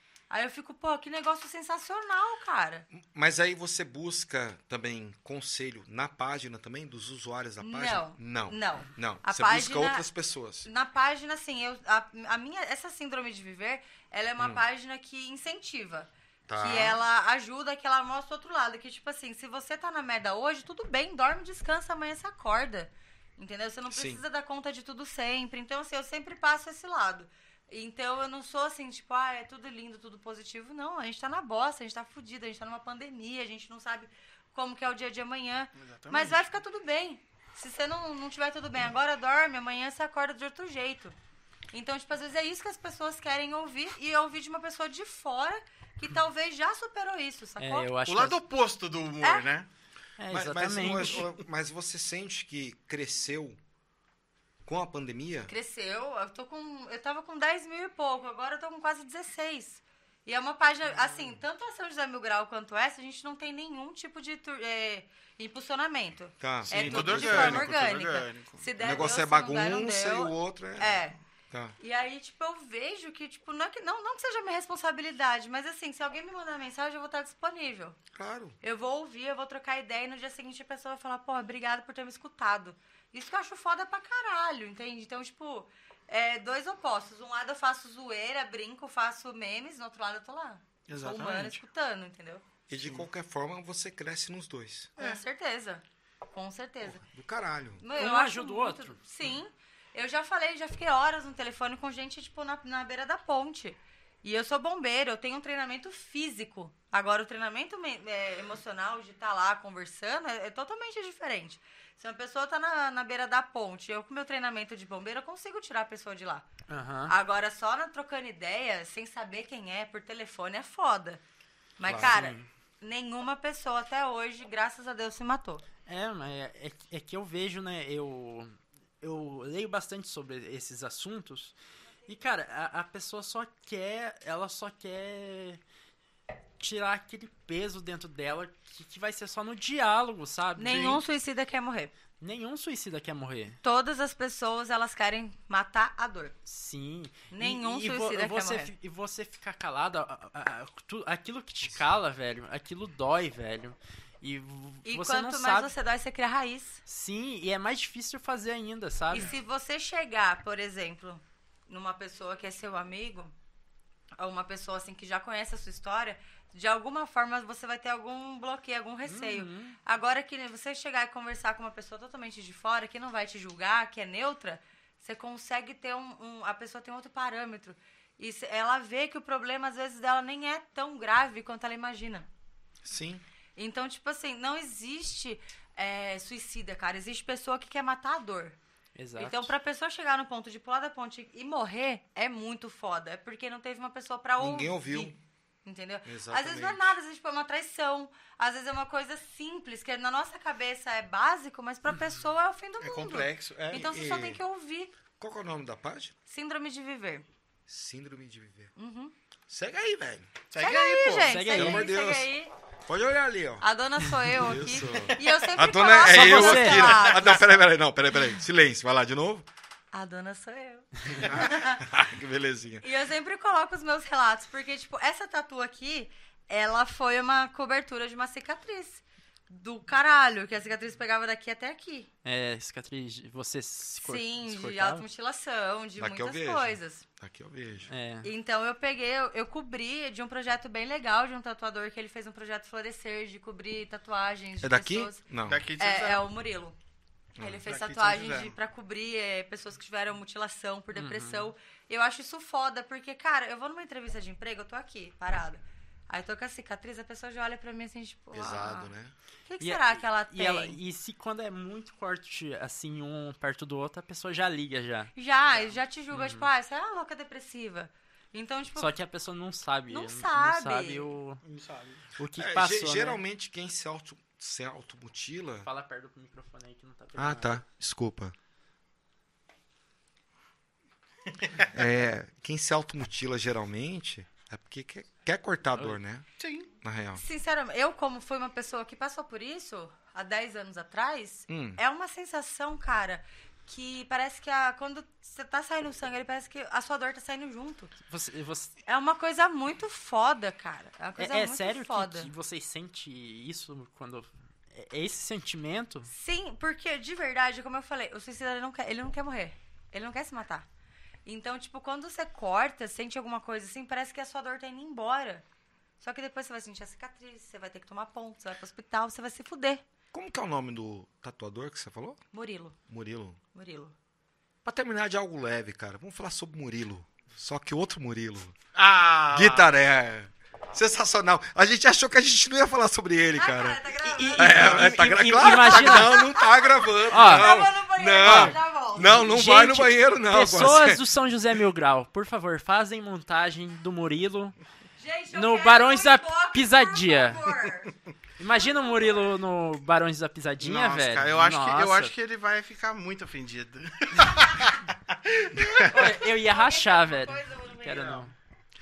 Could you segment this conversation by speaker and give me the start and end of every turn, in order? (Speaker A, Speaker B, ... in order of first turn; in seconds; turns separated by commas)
Speaker A: 0.3-2.9, Speaker B: 2.9-10.7, Speaker A: 7.6-10.1, Speaker A: 10.6-41.1, Speaker B: 16.5-17.0, Speaker B: 23.9-24.2, Speaker C: 35.8-36.4, Speaker A: 41.7-47.9, Speaker D: 47.6-48.4, Speaker C: 48.0-49.7, Speaker D: 50.2-51.3, Speaker B: 50.3-53.6, Speaker B: 54.6-55.5, Speaker A: 55.5-71.2, Speaker B: 66.4-67.7, Speaker C: 66.7-68.7, Speaker B: 68.8-71.7, Speaker A: 71.8-78.0, Speaker B: 78.1-78.6, Speaker A: 78.6-92.4, Speaker C: 90.9-91.6, Speaker B: 92.7-94.9, Speaker A: 95.0-97.0, Speaker B: 96.8-97.8, Speaker A: 97.8-116.5, Speaker D: 97.9-99.0, Speaker D: 116.7-117.1, Speaker A: 117.1-121.2, Speaker A: 121.8-125.6, Speaker B: 121.8-122.1, Speaker D: 122.0-122.4, Speaker D: 125.9-131.5, Speaker D: 132.1-135.6, Speaker D: 136.6-141.0, Speaker A: 140.6-141.9, Speaker C: 140.6-141.0, Speaker D: 142.2-143.6, Speaker A: 143.6-146.3, Speaker D: 146.4-155.7, Speaker A: 147.3-148.7, Speaker A: 154.8-156.8, Speaker D: 156.8-159.3, Speaker A: 159.1-163.3, Speaker A: 164.2-182.3, Speaker D: 169.1-169.8, Speaker B: 182.8-183.2, Speaker A: 183.6-188.6, Speaker D: 188.9-189.5, Speaker A: 189.2-195.1, Speaker B: 194.4-195.2, Speaker A: 195.6-204.9, Speaker B: 196.0-196.9, Speaker C: 202.8-203.9, Speaker B: 203.7-204.4, Speaker B: 205.2-206.1, Speaker A: 206.3-207.2, Speaker B: 207.7-208.7, Speaker A: 208.8-209.1, Speaker B: 209.5-210.3, Speaker C: 210.5-211.3, Speaker A: 210.6-212.5, Speaker D: 211.3-211.9, Speaker B: 211.5-212.3, Speaker B: 212.8-213.6, Speaker A: 213.6-217.5, Speaker B: 214.2-219.5, Speaker D: 216.0-217.1, Speaker A: 219.9-221.8, Speaker B: 221.2-222.8, Speaker A: 222.8-232.1, Speaker D: 232.2-235.0, Speaker A: 234.0-237.0, Speaker B: 236.0-237.9, Speaker D: 237.9-238.3, Speaker A: 238.2-245.2, Speaker B: 244.6-245.6, Speaker C: 245.5-246.3, Speaker A: 245.8-246.8, Speaker B: 247.4-247.6, Speaker A: 247.4-258.9, Speaker C: 247.6-248.6, Speaker D: 250.9-251.5, Speaker B: 258.3-259.1, Speaker A: 259.5-260.8, Speaker D: 259.6-265.1, Speaker A: 265.1-268.9, Speaker C: 265.5-265.8, Speaker D: 266.1-266.4, Speaker D: 268.8-271.4, Speaker A: 269.9-271.1, Speaker C: 271.4-272.0, Speaker D: 272.2-273.2, Speaker B: 272.4-275.7, Speaker D: 275.6-277.6, Speaker B: 277.1-278.3, Speaker B: 281.7-286.2, Speaker C: 286.4-286.7, Speaker B: 286.8-287.2, Speaker A: 287.1-297.9, Speaker B: 291.5-291.8, Speaker D: 298.1-298.7, Speaker A: 298.9-302.3, Speaker D: 301.2-306.1, Speaker A: 306.1-310.6, Speaker A: 311.2-315.4, Speaker A: 316.0-319.8, Speaker B: 320.1-322.2, Speaker A: 322.3-322.8, Speaker B: 322.9-323.4, Speaker A: 323.5-323.9, Speaker B: 324.6-328.6, Speaker C: 328.7-329.7, Speaker B: 329.3-333.8, Speaker A: 333.3-339.2, Speaker D: 334.0-336.2, Speaker B: 334.4-341.0, Speaker D: 337.1-337.5, Speaker D: 338.2-344.6, Speaker A: 345.0-347.9, Speaker D: 345.3-347.4, Speaker D: 348.4-352.1, Speaker A: 348.5-349.1, Speaker C: 350.6-356.2, Speaker D: 355.7-358.3, Speaker A: 355.9-358.3